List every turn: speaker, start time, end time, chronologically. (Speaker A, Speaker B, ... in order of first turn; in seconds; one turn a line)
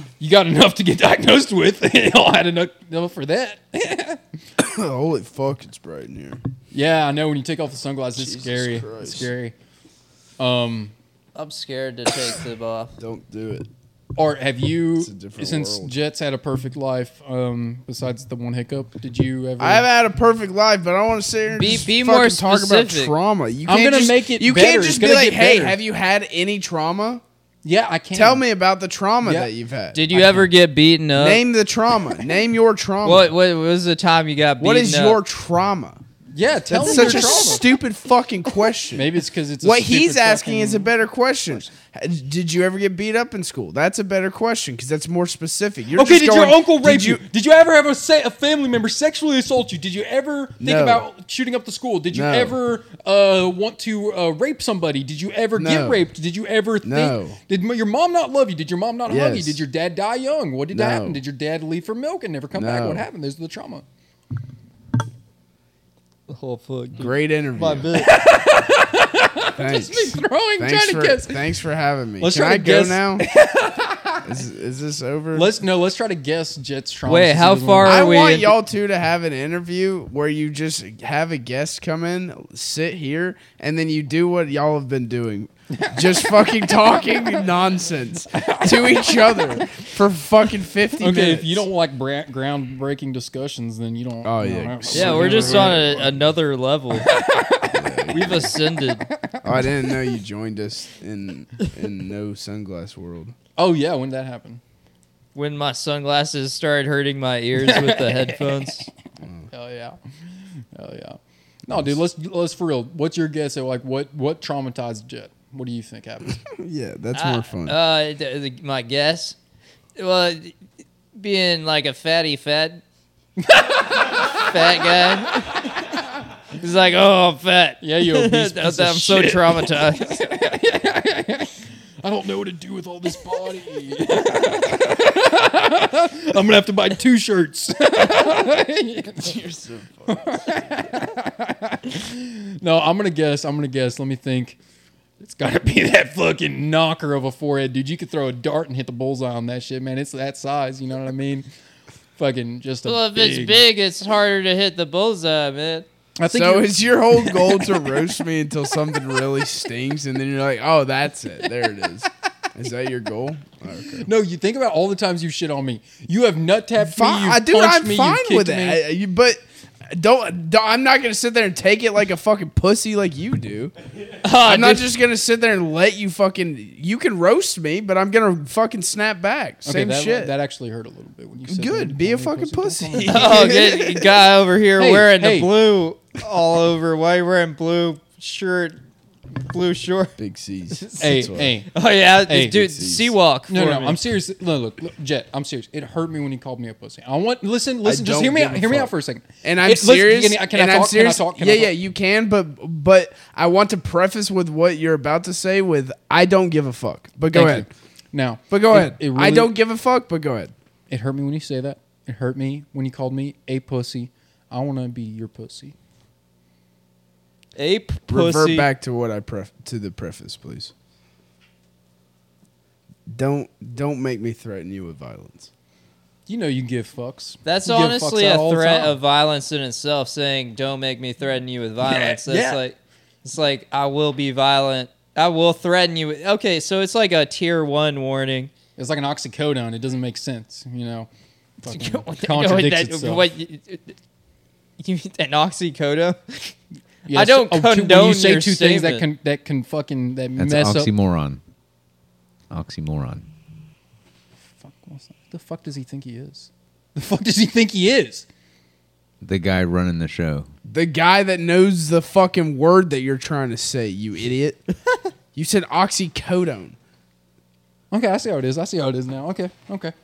Speaker A: 0.2-4.2
Speaker B: 4.6-6.4
Speaker A: 6.7-9.6
Speaker B: 8.2-9.3
Speaker A: 10.4-10.9
Speaker C: 11.3-13.0
Speaker B: 13.0-13.7
Speaker A: 14.2-19.9
Speaker B: 15.0-15.9
Speaker B: 19.6-27.2
Speaker C: 21.6-23.1
Speaker A: 23.7-25.8
Speaker A: 27.6-28.4
Speaker B: 28.1-30.0
Speaker A: 29.2-29.5
Speaker C: 29.9-31.4
Speaker A: 30.1-30.5
Speaker B: 31.1-33.3
Speaker C: 33.0-35.2
Speaker B: 34.6-36.0
Speaker A: 36.3-37.6
Speaker B: 36.7-39.1
Speaker C: 36.9-37.4
Speaker A: 38.9-40.9
Speaker B: 39.6-47.2
Speaker A: 46.0-63.9
Speaker B: 50.6-51.0
Speaker B: 52.1-52.6
Speaker B: 55.6-56.1
Speaker B: 56.8-57.4
Speaker B: 59.1-59.6
Speaker B: 60.7-61.2
Speaker B: 62.5-63.0
Speaker C: 66.3-68.1
Speaker B: 67.0-68.0
Speaker A: 67.9-71.5
Speaker B: 69.5-73.3
Speaker A: 72.2-74.3
Speaker B: 74.2-75.5
Speaker A: 75.3-78.0
Speaker C: 77.1-78.6
Speaker B: 77.8-91.7
Speaker A: 85.8-86.6
Speaker A: 88.3-89.9
Speaker A: 91.0-96.1
Speaker B: 94.2-96.2
Speaker C: 94.9-97.1
Speaker A: 97.1-97.8
Speaker B: 97.7-98.5
Speaker C: 98.1-99.1
Speaker A: 99.2-99.5
Speaker B: 99.4-103.3
Speaker A: 103.6-104.6
Speaker C: 105.3-108.9
Speaker A: 107.6-108.8
Speaker B: 109.2-109.5
Speaker A: 109.5-110.0
Speaker A: 110.6-116.4
Speaker B: 116.4-117.8
Speaker C: 117.1-119.4
Speaker C: 120.0-120.5
Speaker C: 121.2-122.8
Speaker A: 123.4-124.4
Speaker C: 124.2-125.8
Speaker C: 126.6-130.2
Speaker A: 127.8-139.4
Speaker B: 139.2-140.6
Speaker A: 140.1-144.6
Speaker A: 145.2-151.5
Speaker A: 152.2-153.6
Speaker C: 152.9-155.9
Speaker A: 156.2-157.9
Speaker B: 156.3-164.1
Speaker A: 164.0-168.8
Speaker B: 166.8-173.7
Speaker C: 174.2-174.9
Speaker B: 174.4-180.3
Speaker A: 179.7-183.6
Speaker B: 181.5-184.2
Speaker C: 183.0-188.8
Speaker A: 184.8-185.5
Speaker C: 189.4-190.2
Speaker B: 190.2-191.5
Speaker C: 190.8-194.0
Speaker A: 191.0-191.7
Speaker A: 192.3-192.7
Speaker B: 192.6-193.1
Speaker A: 193.5-201.8
Speaker B: 197.8-198.9
Speaker B: 199.4-207.7
Speaker A: 207.3-209.5
Speaker B: 208.5-210.5
Speaker A: 210.9-215.8
Speaker C: 217.6-218.7
Speaker B: 218.1-220.7
Speaker B: 223.1-225.5
Speaker A: 226.3-229.0
Speaker C: 227.4-238.5
Speaker A: 231.8-232.6
Speaker A: 238.8-241.1
Speaker A: 241.6-243.3
Speaker C: 241.7-244.0
Speaker C: 244.8-246.6
Speaker A: 247.1-250.9
Speaker C: 247.1-249.1
Speaker D: 250.4-251.4
Speaker D: 252.5-253.2
Speaker A: 254.6-258.3
Speaker D: 259.2-260.5
Speaker B: 260.7-264.6
Speaker B: 265.4-266.8
Speaker A: 267.9-269.9